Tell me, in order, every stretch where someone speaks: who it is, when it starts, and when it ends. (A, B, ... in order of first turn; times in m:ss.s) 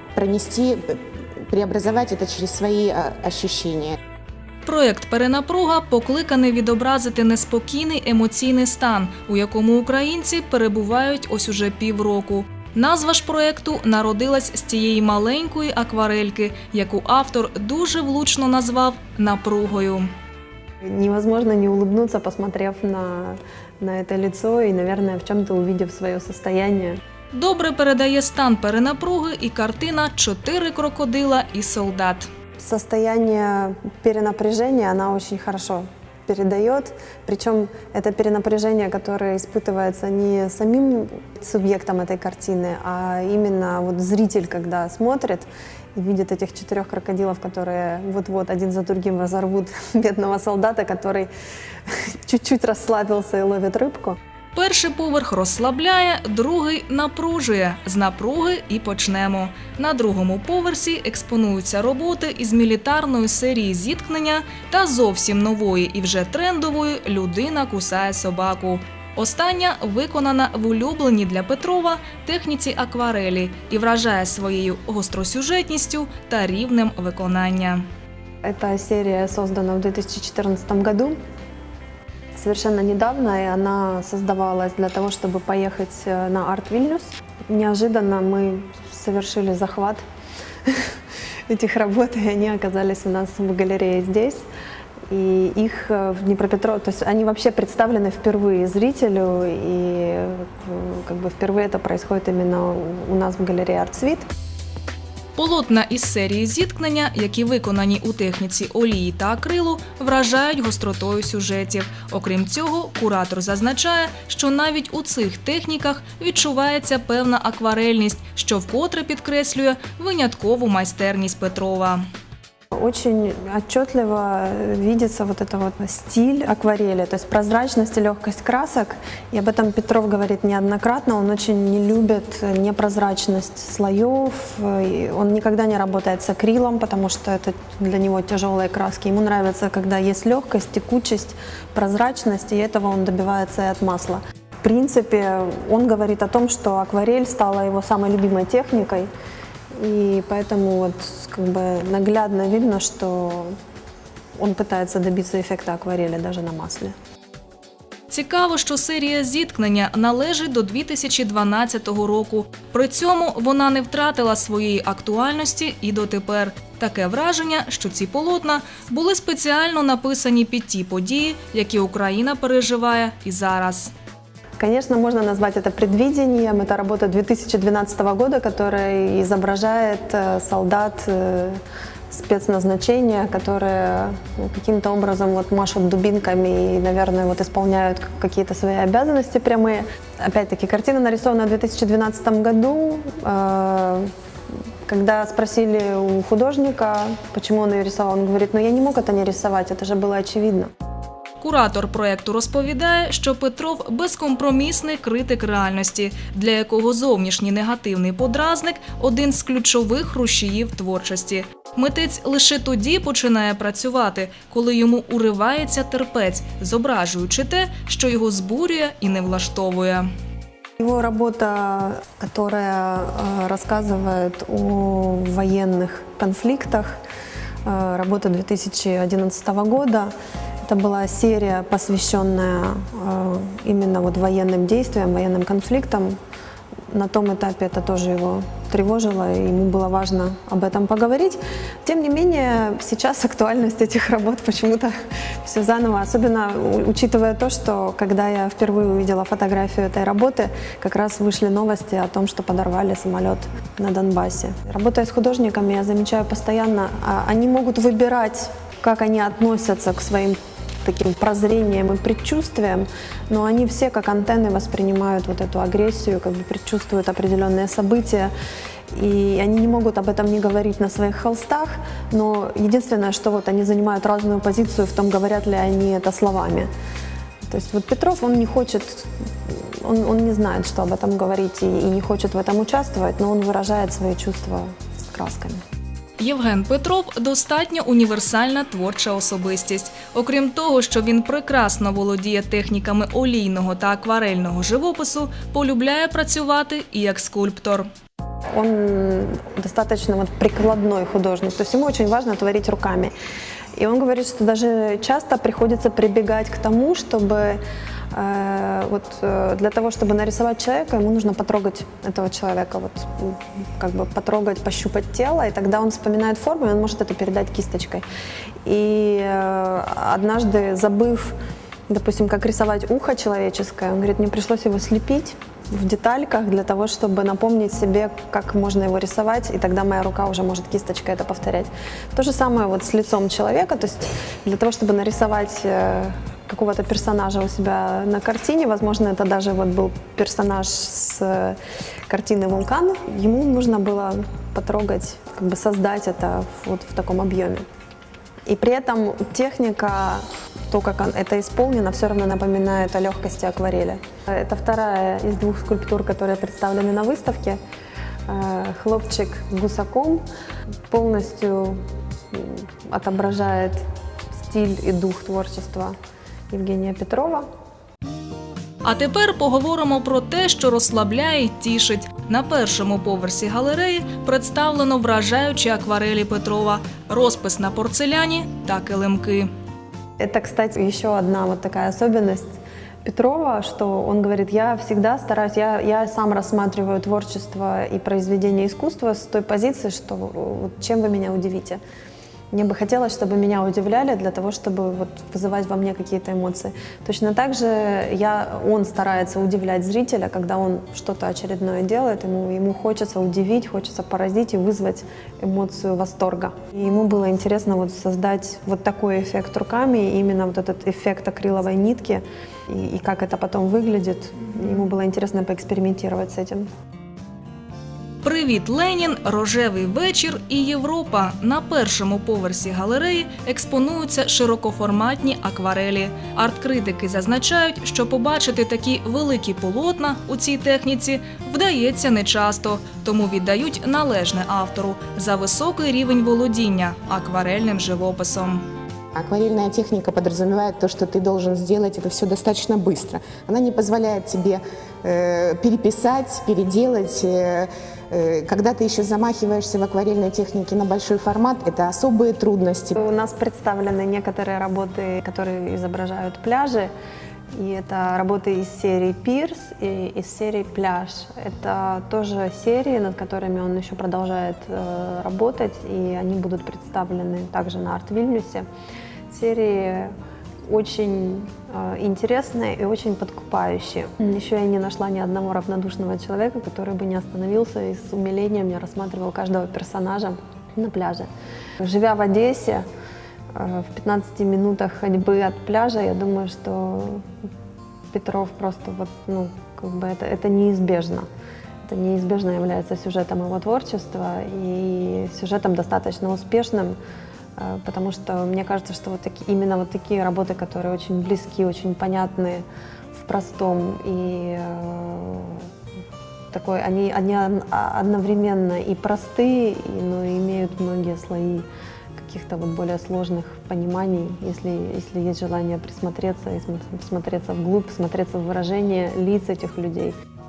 0:00.2-0:04.0 A
0:04.6-0:20.1 B
0:20.8-0:27.0 C
0:27.3-0:32.3 B
0:32.6-0:51.3 C
0:52.3-0:54.2 C
0:54.6-1:17.8 B
1:18.4-1:21.2 C
1:22.4-1:30.0 C
1:30.7-1:30.9 C
1:31.5-1:34.4 C
1:35.1-1:44.3 C
1:45.4-2:02.0 B
2:02.8-2:29.1 C
2:29.8-2:33.6 C
2:34.4-2:36.9 C
2:38.1-2:53.9 B
2:54.6-3:14.1 C
3:14.9-3:20.7 C
3:21.4-3:40.1 B
3:40.8-3:47.0 C
3:47.6-3:50.1 C
3:50.7-3:56.2 C
3:56.9-4:28.3 C
4:28.9-4:36.7 C
4:37.4-4:45.6 C
4:46.2-4:57.9 B
4:58.5-5:03.1 C
5:03.8-5:07.6 C
5:08.1-5:18.0 C
5:18.6-5:21.4 C
5:21.9-5:41.6 C
5:42.1-5:47.6 C
5:48.5-5:57.6 C
5:58.3-6:00.2 C
6:00.9-6:01.8 C
6:02.3-6:03.8 C
6:04.4-6:06.0 C
6:06.5-6:07.5 C
6:08.8-6:19.5 B
6:20.2-6:22.5 C
6:23.0-6:31.8 C
6:32.5-6:56.7 C
6:58.2-7:18.6 B
7:19.2-7:33.0 A
7:33.0-7:36.9 C
7:37.5-7:48.7 C
7:49.3-7:50.1 C
7:50.7-8:01.3 C
8:01.8-8:02.9 C
8:03.5-8:07.3 C
8:08.1-8:11.3 C
8:11.8-8:17.0 C
8:17.6-8:25.6 C
8:26.5-8:40.1 C